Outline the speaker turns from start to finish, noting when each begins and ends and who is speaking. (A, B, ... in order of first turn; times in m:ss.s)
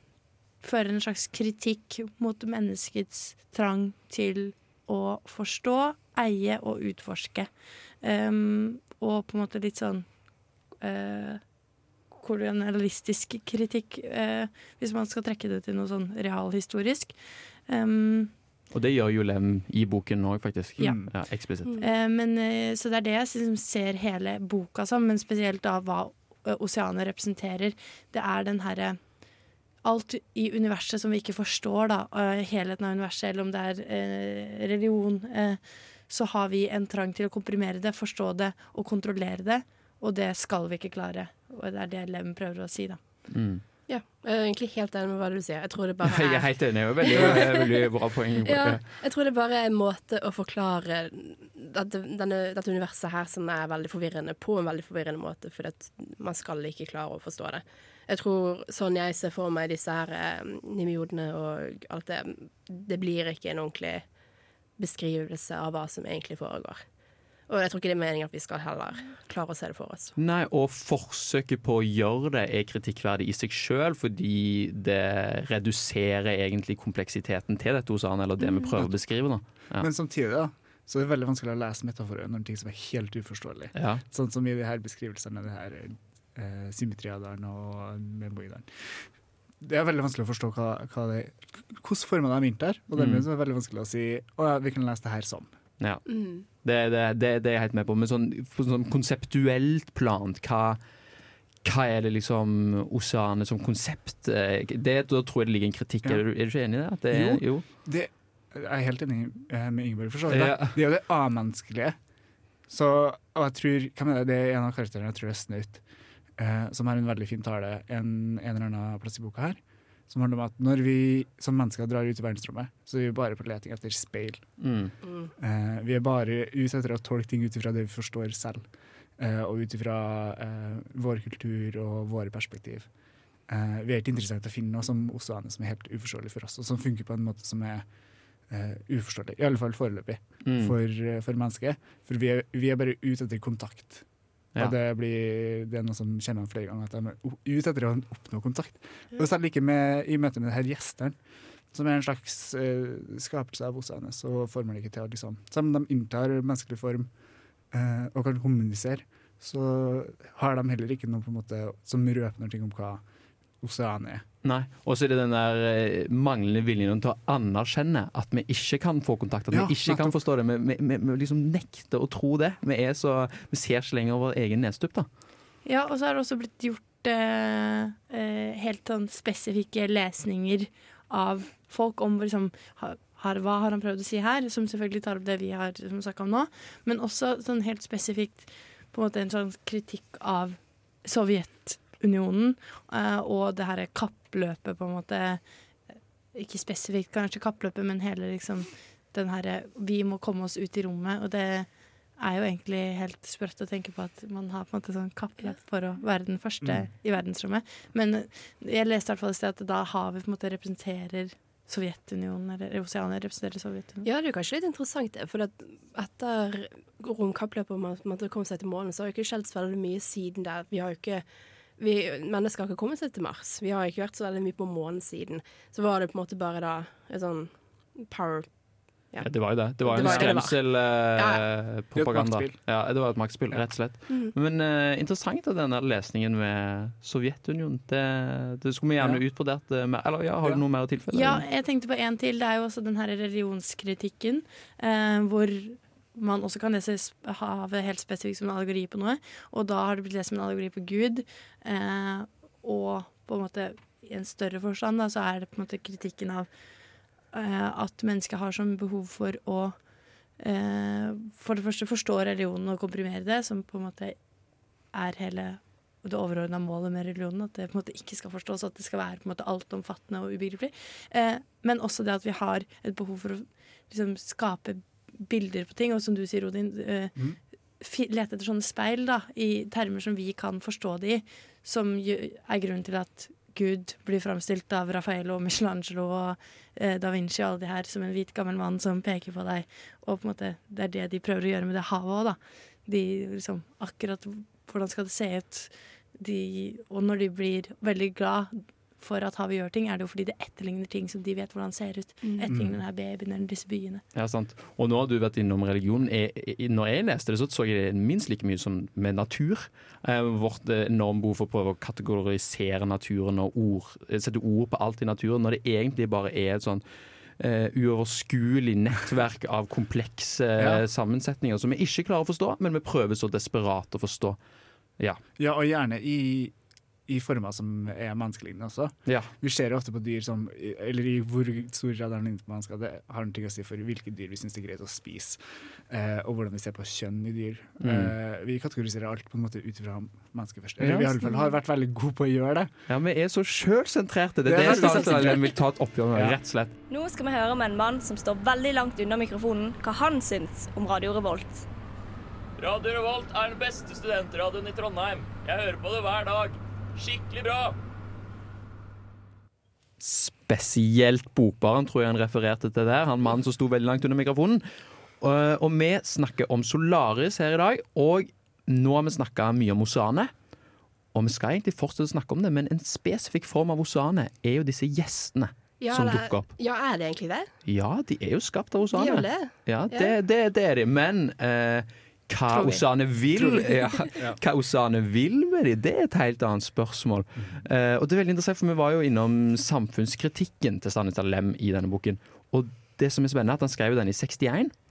0:00.6-0:07.5 A
0:08.0-0:10.1 A
0:10.8-0:11.4 A
0:12.2-0:17.1 A
0:17.7-0:18.3 A
0:18.7-0:21.7 B
0:20.8-0:21.1 C
0:21.8-0:29.0 A
0:29.8-0:43.0 A
0:43.3-0:43.6 B
0:43.9-0:47.9 D
0:46.0-0:48.8 B
0:48.4-1:04.0 D
1:04.8-1:06.8 D
1:07.5-1:10.1 D
1:10.2-1:19.9 B
1:18.7-1:19.1 C
1:19.8-1:29.0 C
1:23.8-1:24.0 B
1:29.6-1:35.5 C
1:33.0-1:33.2 B
1:35.8-1:40.8 B
1:36.1-1:36.4 D
1:41.6-1:47.6 B
1:47.1-1:52.0 C
1:50.3-1:50.8 B
1:52.7-1:55.8 C
1:56.4-2:04.5 C
2:04.6-2:04.9 B
2:05.0-2:05.3 D
2:05.4-2:08.6 C
2:09.2-2:12.9 C
2:13.5-2:17.9 C
2:18.5-2:24.0 C
2:20.4-2:20.8 B
2:24.6-2:31.2 C
2:31.7-2:37.1 C
2:37.7-2:43.0 C
2:43.6-2:44.2 C
2:44.4-2:55.1 B
2:49.5-2:50.2 C
2:55.6-3:15.4 A
3:16.3-3:34.0 A
3:26.6-3:26.9 C
3:34.0-3:41.2 D
3:41.8-3:48.5 D
3:49.1-3:51.4 D
3:49.2-4:01.4 B
3:50.0-3:50.4 C
3:52.0-3:52.6 C
3:59.0-3:59.2 C
4:01.1-4:16.5 A
4:17.3-4:19.8 A
4:20.4-4:24.2 A
4:24.9-4:37.2 A
4:37.8-5:04.0 A
5:02.5-5:02.8 C
5:04.1-5:16.8 B
5:17.4-5:24.4 B
5:20.6-5:20.8 C
5:25.4-5:26.5 C
5:27.1-5:42.7 C
5:37.8-5:38.1 B
5:40.8-5:41.2 B
5:42.9-5:46.7 B
5:44.4-5:45.6 C
5:44.7-5:45.3 D
5:46.1-5:46.4 C
5:46.9-5:51.6 E
5:52.6-5:57.8 F
6:00.0-6:04.6 B
6:05.2-6:10.3 B
6:11.1-6:16.5 B
6:15.8-6:17.5 D
6:17.6-6:34.7 B
6:18.9-6:20.1 D
6:22.5-6:22.8 D
6:23.3-6:24.4 C
6:27.4-6:27.6 C